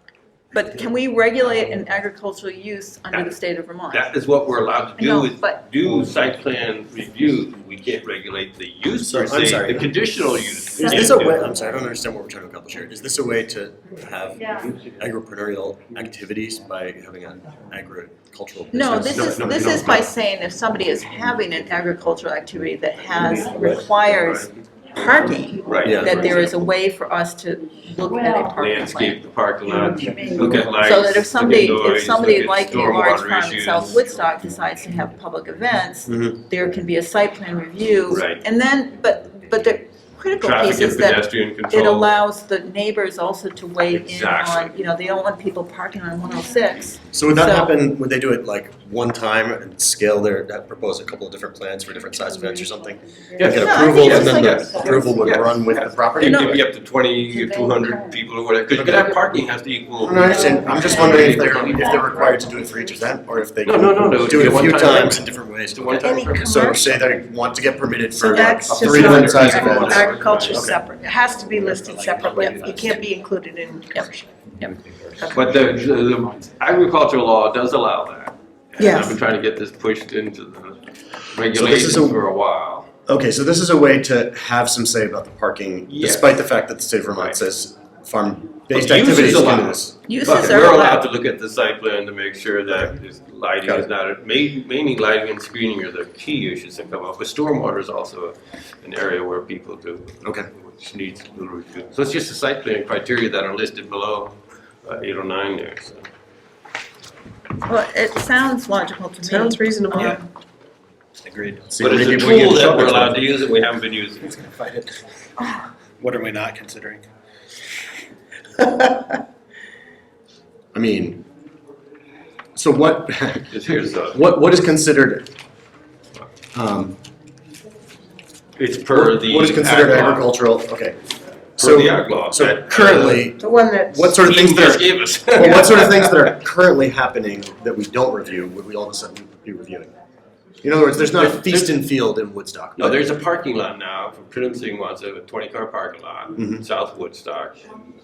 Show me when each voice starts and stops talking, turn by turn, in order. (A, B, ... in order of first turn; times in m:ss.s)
0:00.5-0:04.1 A
0:03.9-0:11.5 B
0:05.0-0:05.6 A
0:09.0-0:09.9 C
0:10.8-0:20.0 C
0:18.7-0:29.2 A
0:19.0-0:20.1 B
0:23.7-0:24.5 B
0:25.6-0:26.7 B
0:25.8-0:26.3 C
0:28.6-0:34.0 B
0:30.7-0:47.7 A
0:36.1-0:36.4 C
0:38.1-0:38.4 B
0:40.4-0:42.1 B
0:43.9-0:44.7 B
0:47.1-0:56.6 C
0:53.4-1:02.4 B
0:53.4-0:55.2 A
0:56.2-0:56.6 A
1:00.0-1:10.8 C
1:03.6-1:06.7 B
1:06.0-1:06.8 D
1:08.2-1:14.3 D
1:08.3-1:10.8 B
1:12.0-1:12.5 E
1:12.4-1:13.0 B
1:15.2-1:15.5 D
1:15.3-1:22.9 B
1:18.8-1:19.2 D
1:21.5-1:22.2 C
1:23.1-1:30.6 C
1:25.9-1:26.5 B
1:27.2-1:27.4 B
1:28.7-1:46.1 B
1:30.1-1:31.1 A
1:33.6-1:33.9 C
1:47.6-1:50.3 A
1:49.2-1:50.1 D
1:49.3-1:50.2 E
1:51.2-1:51.7 E
1:51.7-1:53.2 C
1:51.8-1:54.4 B
1:54.3-1:54.9 E
1:56.0-1:57.0 E
2:00.7-2:01.2 C
2:02.6-2:05.3 C
2:03.5-2:04.3 B
2:06.5-2:07.0 C
2:08.6-2:10.3 B
2:08.9-2:11.0 C
2:11.6-2:19.9 C
2:11.6-2:13.3 B
2:13.4-2:14.1 D
2:14.2-2:16.3 B
2:20.6-2:23.0 C
2:21.0-2:21.8 B
2:22.8-2:27.7 B
2:26.4-2:26.6 C